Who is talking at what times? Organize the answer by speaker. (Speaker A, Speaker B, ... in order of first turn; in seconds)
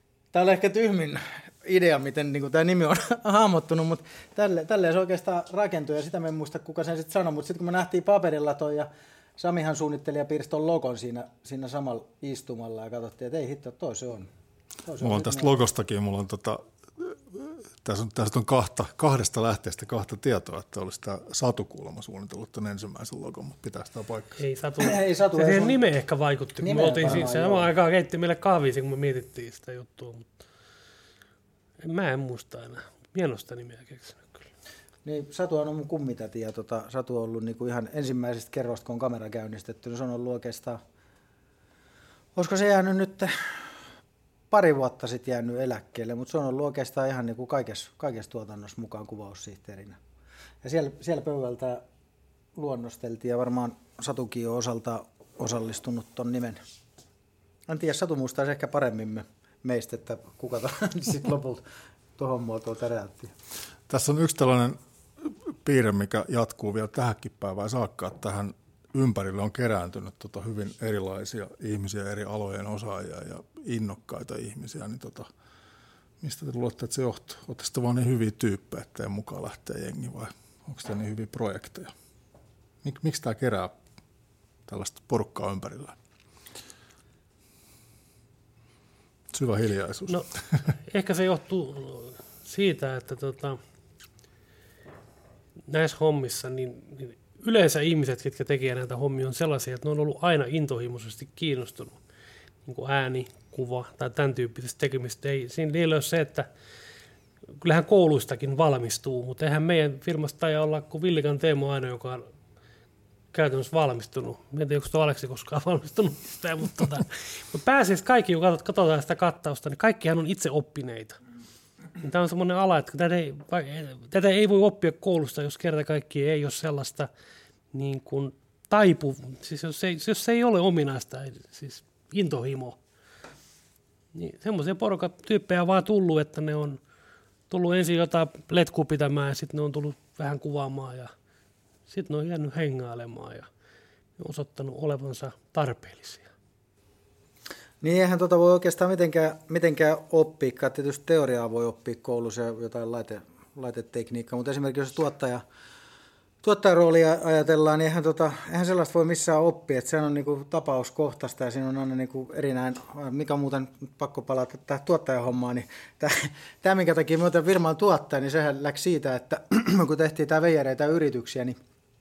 Speaker A: 0.3-14.3, 14.8-15.5, 24.8-25.8, 26.6-27.7, 35.0-40.8, 42.4-43.7, 44.5-50.0, 50.6-51.8, 52.5-56.6, 57.7-61.6, 62.2-63.3, 147.8-155.4, 156.4-171.6
Speaker B: 15.0-24.4, 63.9-75.3, 76.2-81.9, 82.8-83.8, 84.7-86.0, 89.3-90.7
Speaker C: 24.4-30.3, 31.8-34.5, 90.9-93.6, 95.7-102.0, 102.6-106.5, 107.6-112.3, 113.3-121.2, 122.0-127.1, 127.7-132.8, 134.1-136.8, 137.5-141.1, 141.9-143.5, 144.2-146.3